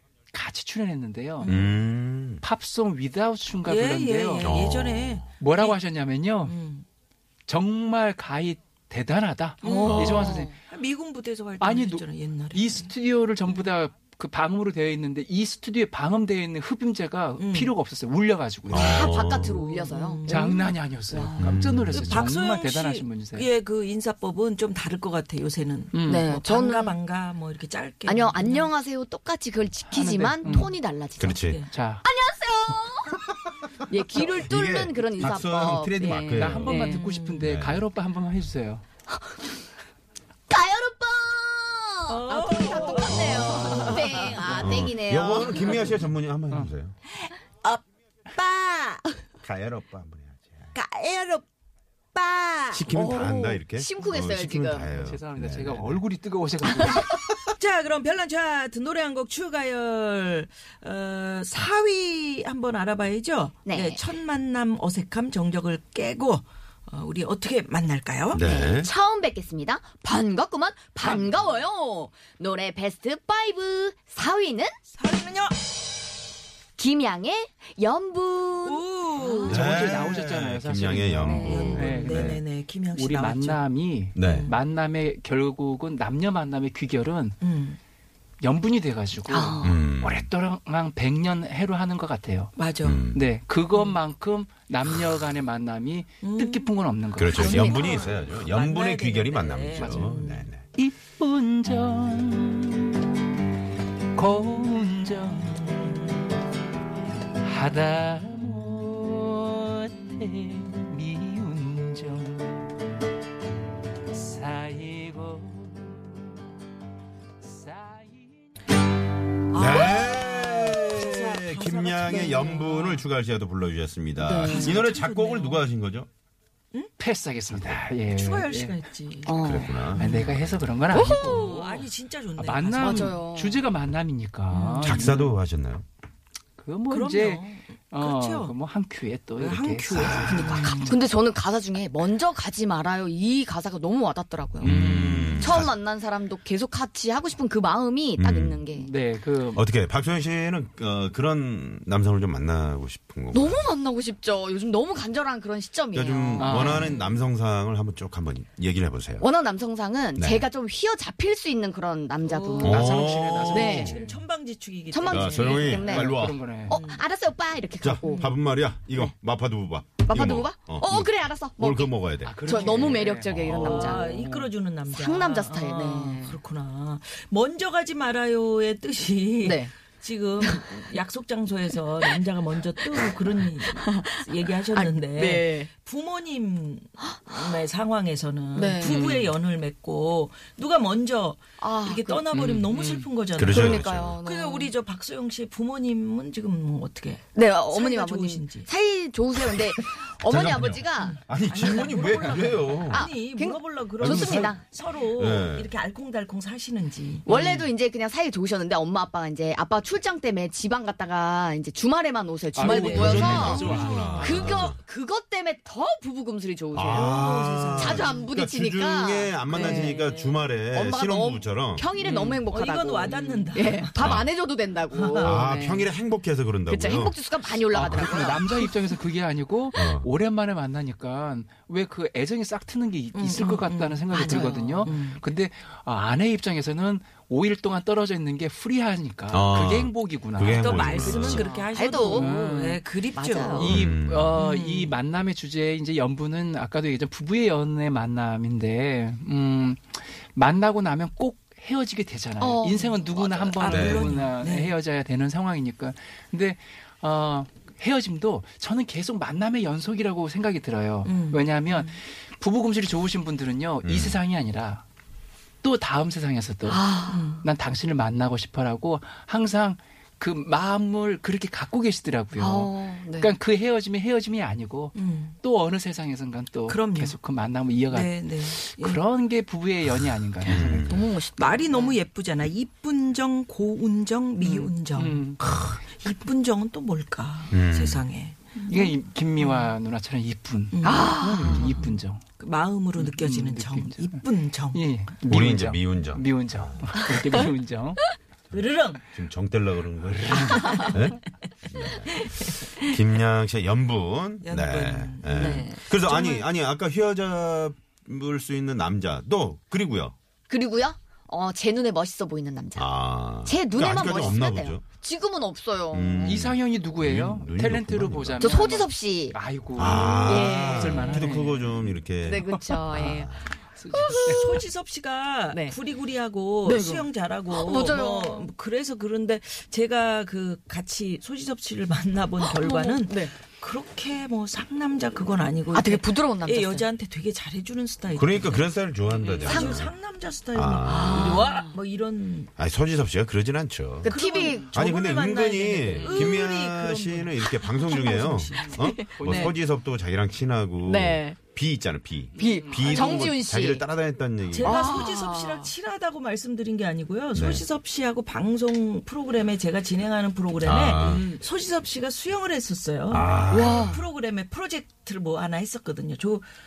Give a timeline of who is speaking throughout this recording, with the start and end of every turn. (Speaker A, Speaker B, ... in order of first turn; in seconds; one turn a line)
Speaker A: 0.3-1.5
Speaker B: 1.4-1.8
Speaker C: 1.5-2.4
Speaker A: 2.4-4.5
Speaker B: 3.6-5.8
Speaker C: 4.4-5.2
Speaker A: 5.4-6.5
Speaker B: 6.4-6.9
Speaker A: 7.5-10.6
Speaker B: 9.6-12.9
Speaker D: 9.6-10.6
Speaker C: 9.8-10.4
Speaker A: 11.6-19.2
Speaker B: 17.4-17.7
Speaker C: 18.7-19.7
Speaker D: 18.7-20.4
Speaker B: 19.8-20.7
Speaker A: 20.3-23.5
Speaker D: 21.1-21.5
Speaker C: 21.4-22.2
Speaker B: 21.9-28.7
Speaker A: 25.9-26.3
Speaker D: 26.0-27.0
Speaker D: 28.1-31.4
Speaker A: 29.9-30.7
Speaker C: 31.2-31.6
Speaker B: 31.4-31.7
Speaker A: 31.7-32.0
Speaker D: 32.0-33.2
Speaker D: 33.9-37.0
Speaker C: 34.0-36.9
Speaker A: 36.3-38.8
Speaker B: 36.7-37.5
Speaker C: 37.4-37.9
Speaker D: 40.5-46.0
Speaker B: 42.1-44.8
Speaker C: 43.0-47.0
Speaker D: 47.1-47.8
Speaker D: 48.3-49.2
Speaker C: 49.4-50.7
Speaker D: 50.7-51.5
Speaker D: 52.1-55.0
Speaker C: 52.7-56.1
Speaker A: 54.9-57.2
Speaker B: 57.4-68.4
Speaker D: 63.6-64.0
Speaker C: 68.3-68.9
Speaker D: 68.3-74.8
Speaker B: 75.0-75.5
Speaker D: 76.8-79.8
Speaker B: 78.7-79.6
Speaker A: 79.4-82.4
Speaker C: 79.5-82.4
Speaker D: 81.2-81.9
Speaker B: 81.4-83.6
Speaker A: 82.9-87.4
Speaker C: 84.2-84.5
Speaker B: 84.2-84.6
Speaker B: 87.4-87.8
Speaker A: 88.4-92.5
Speaker D: 89.3-89.8
Speaker C: 89.6-90.3
Speaker B: 92.6-93.0
Speaker C: 92.8-93.3
Speaker A: 93.1-98.0
Speaker B: 96.2-96.7
Speaker C: 97.2-100.7
Speaker D: 97.3-98.1
Speaker B: 97.3-100.5
Speaker A: 99.8-100.2
Speaker A: 100.8-103.2
Speaker A: 104.2-106.1
Speaker A: 107.4-112.7
Speaker A: 114.1-116.3
Speaker A: 117.4-118.5
Speaker B: 119.5-123.0
Speaker C: 119.5-126.1
Speaker D: 124.2-124.8
Speaker B: 124.4-125.7
Speaker A: 127.0-128.8
Speaker C: 127.5-127.8
Speaker B: 128.1-129.4
Speaker D: 129.2-129.9
Speaker C: 129.4-130.9
Speaker A: 129.9-135.4
Speaker B: 129.9-130.3
Speaker D: 130.9-131.6
Speaker B: 131.2-133.1
Speaker D: 132.8-133.6
Speaker B: 134.6-135.0
Speaker C: 134.8-135.9
Speaker A: 136.6-140.9
Speaker B: 136.9-138.6
Speaker B: 139.4-141.0
Speaker D: 140.8-148.9
Speaker A: 144.6-145.5
Speaker C: 144.6-145.8
Speaker C: 148.2-148.6
Speaker A: 148.8-149.7
Speaker C: 149.6-153.7
Speaker D: 153.3-157.2
Speaker C: 155.9-159.3
Speaker A: 156.4-156.9
Speaker D: 159.2-162.9
Speaker C: 160.2-160.5
Speaker A: 162.3-164.2
Speaker C: 162.6-163.6
Speaker B: 162.9-167.0
Speaker D: 163.5-164.0
Speaker D: 164.9-166.1
Speaker C: 165.1-166.4
Speaker A: 165.7-166.8
Speaker D: 166.7-168.4
Speaker C: 167.8-173.8
Speaker D: 170.0-174.2
Speaker A: 172.2-174.5
Speaker B: 172.7-172.9
Speaker B: 173.5-198.7
Speaker D: 174.9-176.4
Speaker D: 179.4-179.7
Speaker D: 183.6-184.2
Speaker D: 184.7-185.7
Speaker D: 187.0-187.6
Speaker D: 188.6-189.3
Speaker D: 191.6-192.3
Speaker A: 192.3-193.1
Speaker C: 193.3-194.2
Speaker D: 193.5-194.7
Speaker D: 197.3-201.2
Speaker C: 199.4-203.1
Speaker B: 201.0-207.7
Speaker D: 201.8-202.0
Speaker D: 202.9-204.6
Speaker C: 204.0-205.7
Speaker D: 207.3-220.0
Speaker A: 212.6-214.7
Speaker B: 212.7-213.7
Speaker C: 212.9-214.8
Speaker C: 216.7-221.9
Speaker B: 216.8-218.3
Speaker B: 219.5-220.4
Speaker D: 220.6-225.9
Speaker A: 222.0-222.4
Speaker B: 222.5-223.9
Speaker A: 223.1-223.5
Speaker C: 224.0-224.3
Speaker B: 224.9-225.3
Speaker C: 225.2-227.2
Speaker D: 226.7-228.5
Speaker C: 227.7-228.5
Speaker A: 227.8-241.3
Speaker C: 229.8-230.1
Speaker B: 233.1-235.2
Speaker D: 234.1-234.9
Speaker C: 239.3-241.5
Speaker B: 240.5-243.7
Speaker D: 241.2-242.3
Speaker A: 242.1-242.8
Speaker D: 243.1-243.8
Speaker A: 243.5-264.8
Speaker C: 243.6-244.4
Speaker B: 244.3-245.0
Speaker D: 252.4-253.7
Speaker B: 253.5-254.8
Speaker C: 253.7-254.2
Speaker B: 261.0-262.0
Speaker C: 263.8-264.2
Speaker A: 265.6-266.9
Speaker D: 266.7-267.3
Speaker B: 267.1-267.4
Speaker A: 267.4-280.9
Speaker D: 272.4-273.3
Speaker B: 274.9-275.4
Speaker B: 276.7-277.2
Speaker B: 277.9-279.0
Speaker D: 280.4-282.0
Speaker C: 280.5-281.1
Speaker B: 281.4-289.7
Speaker A: 284.4-285.4
Speaker C: 287.5-288.1
Speaker A: 288.7-292.2
Speaker B: 290.7-291.8
Speaker D: 290.8-291.9
Speaker C: 291.5-291.9
Speaker B: 292.4-294.9
Speaker A: 293.0-294.2
Speaker A: 294.7-298.1
Speaker C: 295.3-296.9
Speaker B: 298.5-299.1
Speaker C: 299.1-310.1
Speaker A: 300.1-300.9
Speaker B: 300.3-301.0
Speaker B: 302.1-302.9
Speaker B: 304.4-306.5
Speaker D: 305.3-305.8
Speaker D: 310.5-316.4
Speaker C: 312.8-314.8
Speaker C: 315.9-318.6
Speaker A: 316.2-321.9
Speaker D: 318.4-319.4
Speaker C: 319.8-323.5
Speaker D: 320.2-321.3
Speaker D: 322.2-323.3
Speaker A: 322.4-323.1
Speaker A: 323.8-324.6
Speaker D: 323.9-324.5
Speaker B: 324.0-338.7
Speaker D: 325.5-325.8
Speaker D: 326.6-328.5
Speaker D: 332.4-333.4
Speaker D: 335.7-336.9
Speaker C: 338.1-339.9
Speaker D: 339.2-339.8
Speaker B: 339.4-342.5
Speaker C: 340.5-341.6
Speaker D: 340.9-341.8
Speaker C: 342.6-344.1
Speaker D: 344.0-344.7
Speaker B: 344.1-348.8
Speaker C: 344.7-355.1
Speaker A: 346.0-346.4
Speaker D: 348.7-349.5
Speaker A: 349.1-349.6
Speaker D: 350.8-351.4
Speaker A: 352.4-353.3
Speaker D: 352.4-353.9
Speaker B: 352.9-353.2
Speaker B: 354.5-366.5
Speaker D: 354.6-355.7
Speaker C: 357.3-357.6
Speaker C: 360.6-361.3
Speaker A: 361.1-361.4
Speaker C: 363.1-364.0
Speaker D: 363.5-364.0